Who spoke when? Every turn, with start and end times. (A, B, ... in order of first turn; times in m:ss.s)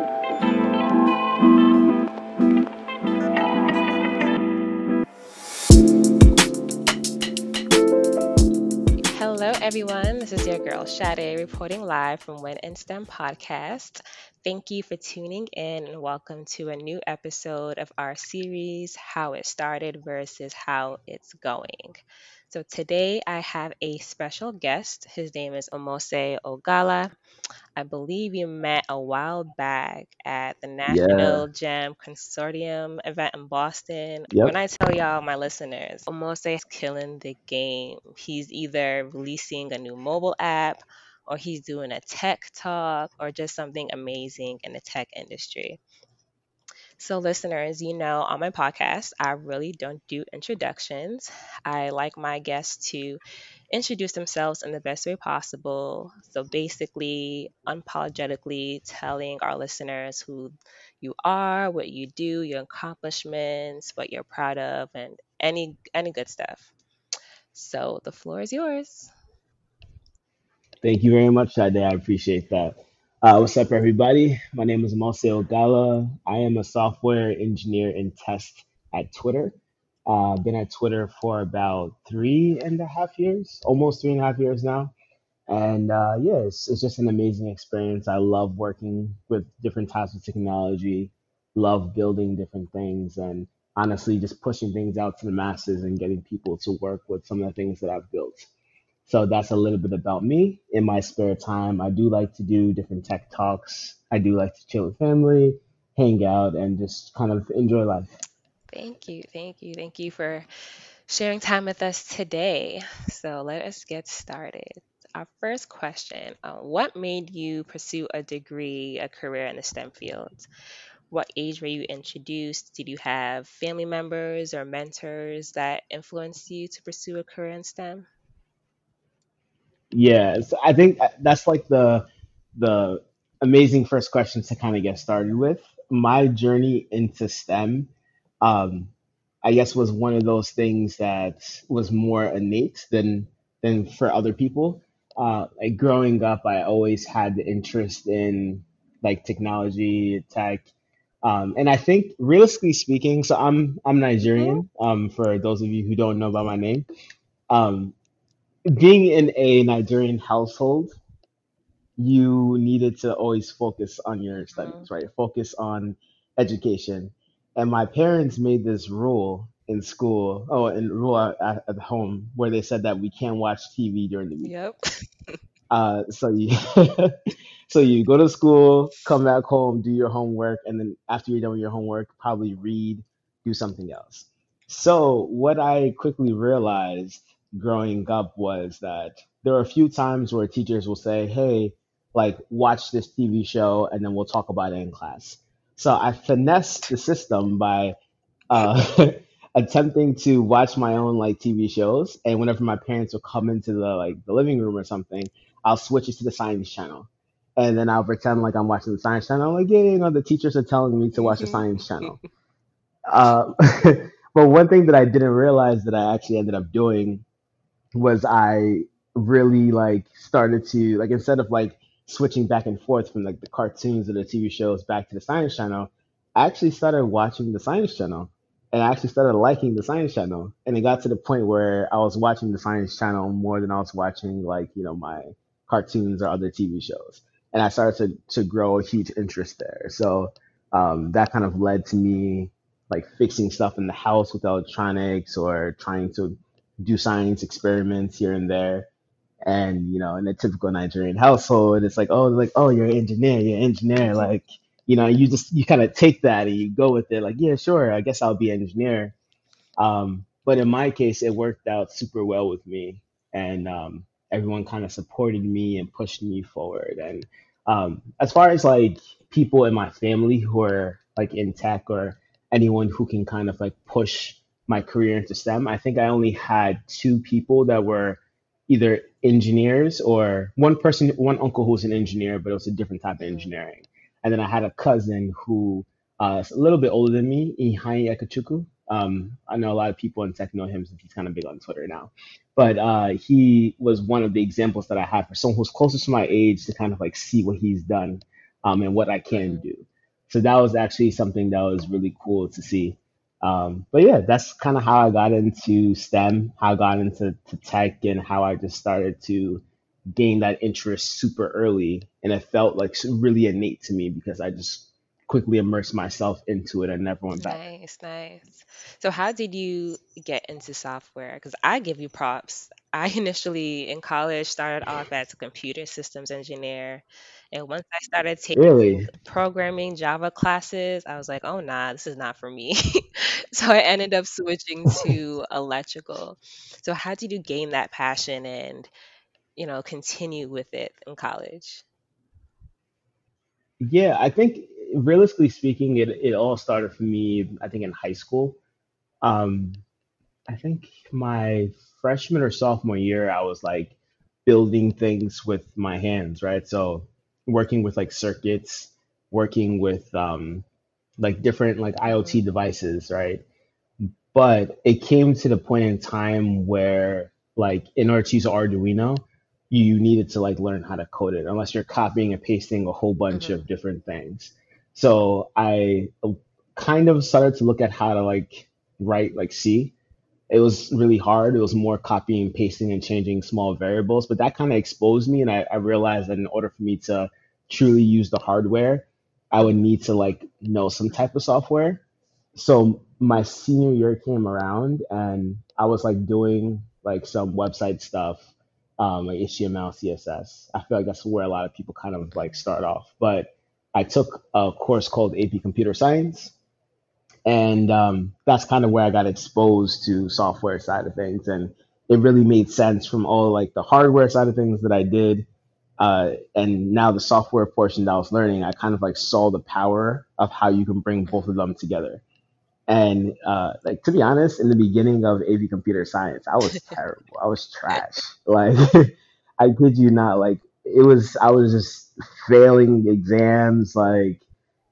0:09.0-0:22.0 A
0:22.5-0:27.1 A
0:27.8-0:45.8 A
0:30.9-0:31.5 B
0:34.3-0:34.6 B
0:47.0-0:53.2 A
0:53.7-1:06.7 A
1:07.5-1:09.1 A
1:10.8-1:19.6 B
1:20.1-1:24.9 B
1:25.5-1:38.5 B
1:39.0-1:48.1 B
1:48.7-1:50.5 A
1:51.1-2:00.5 A
2:01.1-2:08.1 A
2:09.9-2:17.9 B
2:18.4-2:18.9 B
2:19.4-2:30.7 B
2:31.2-2:36.9 B
2:34.2-2:34.6 A
2:37.5-2:38.0 B
2:38.7-2:41.0 B
2:42.0-2:54.5 B
2:44.4-2:44.9 A
2:54.4-2:55.4 A
2:55.7-2:57.1 B
2:57.7-3:18.0 B
3:18.5-3:32.2 B
3:31.2-3:31.7 A
3:33.1-3:37.2 B
3:37.9-4:08.9 B
4:09.4-4:19.2 B
4:14.0-4:14.3 A
4:19.8-5:09.6 B
4:43.2-4:43.5 A
4:59.3-4:59.6 A
5:10.1-5:17.6 B
5:17.4-5:38.9 A
5:28.6-5:29.1 B
5:39.6-5:41.8 A
5:43.8-5:48.6 B
5:49.2-5:49.8 B
5:50.5-6:00.6 B
6:01.2-6:03.4 B
6:02.1-6:02.4 A
6:04.3-6:19.9 B
6:13.3-6:13.6 A
6:20.5-6:32.0 B
6:32.6-6:46.5 B
6:42.3-6:42.6 A
6:47.5-6:55.5 B
6:56.0-7:02.2 B
7:02.9-7:14.4 B